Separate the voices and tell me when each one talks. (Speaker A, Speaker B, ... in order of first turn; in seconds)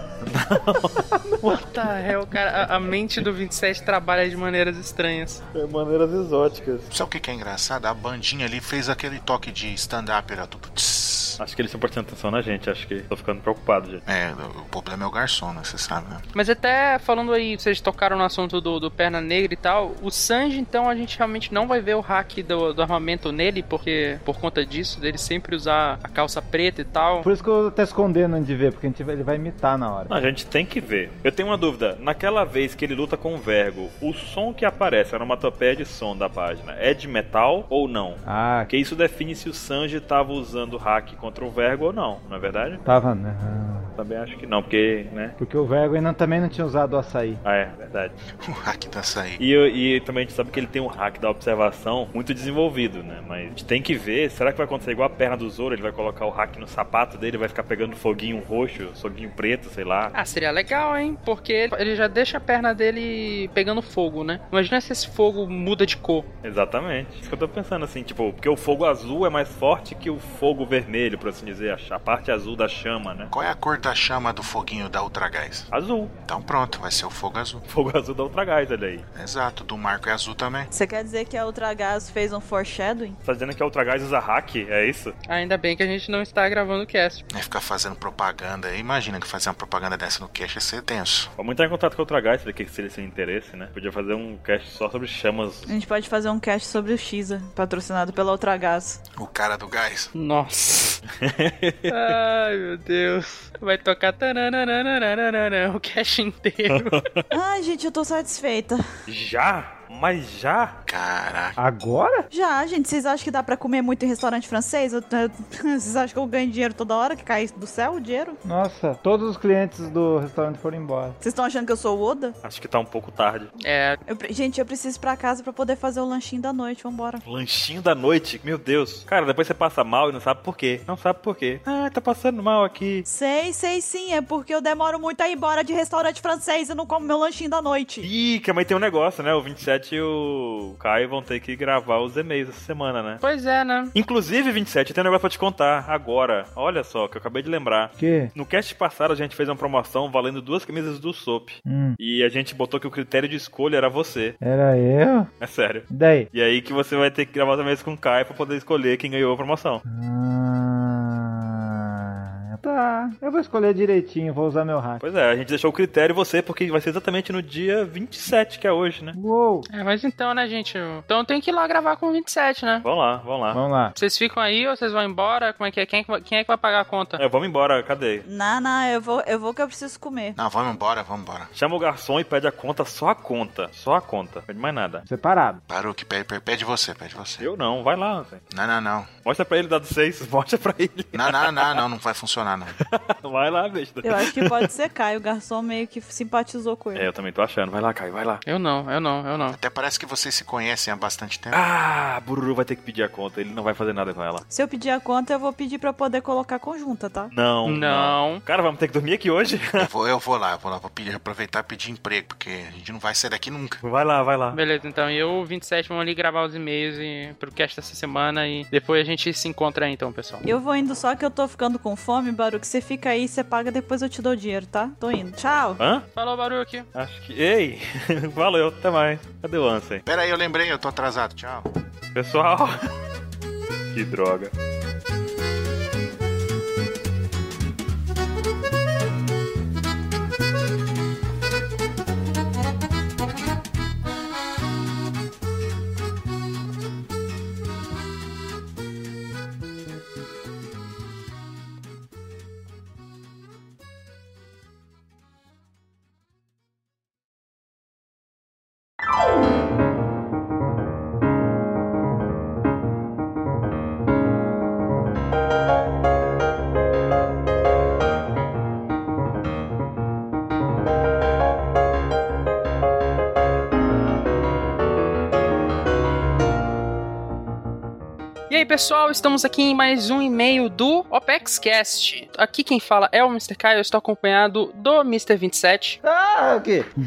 Speaker A: 0.2-1.1, 5.5-6.9, 11.4-14.0, 30.1-42.8, 44.0-45.4, 47.5-48.2, 49.4-60.1, 66.4-73.3, 75.7-76.1, 77.7-79.1, 83.2-85.1, 91.4-95.7, 101.2-102.1, 106.7-107.3, 109.1-110.8, 122.4-123.5, 127.2-133.1, 138.0-143.2, 143.9-154.4, 155.4-159.8, 165.0-169.2, 172.8-173.6, 177.2-178.3, 181.6-185.1, 187.4-188.4, 189.2-191.8, 192.8-194.7, 196.9-198.4, 201.5-204.4, 207.3-209.9, 213.8-214.6, 225.8-226.1, 226.9-230.0, 232.2-232.8, 233.9-234.5
Speaker B: 1.4-5.4, 16.4-27.3, 60.1-66.3, 85.3-87.2, 100.2-101.0, 101.9-107.0, 123.6-124.0, 143.2-143.9, 169.7-172.8, 174.0-177.2, 198.5-199.6, 207.7-208.4, 214.5-220.4, 226.2-226.9, 278.5-286.0
Speaker C: 6.9-11.4, 14.1-16.2, 48.4-49.4, 73.3-75.7, 76.3-77.7, 79.2-80.7, 87.3-91.3, 99.2-100.1, 110.9-111.6, 180.3-181.5, 185.7-187.5, 188.5-189.1, 191.1-192.8, 199.5-201.6, 209.8-213.8, 230.0-231.7
Speaker D: 27.2-30.1, 38.2-38.7, 42.9-43.9, 45.4-47.4, 111.6-112.3, 118.4-121.2, 148.0-148.3, 151.7-152.0, 154.4-155.3, 155.9-156.3, 159.9-165.0, 169.1-169.7, 173.5-173.9, 185.1-185.6, 286.0-286.9
Speaker E: 80.7-83.2, 95.7-99.0, 107.3-108.8, 112.3-118.4, 121.2-122.4, 124.1-127.2, 133.1-138.1, 178.3-180.4, 194.0-197.1, 204.5-207.3, 220.4-225.8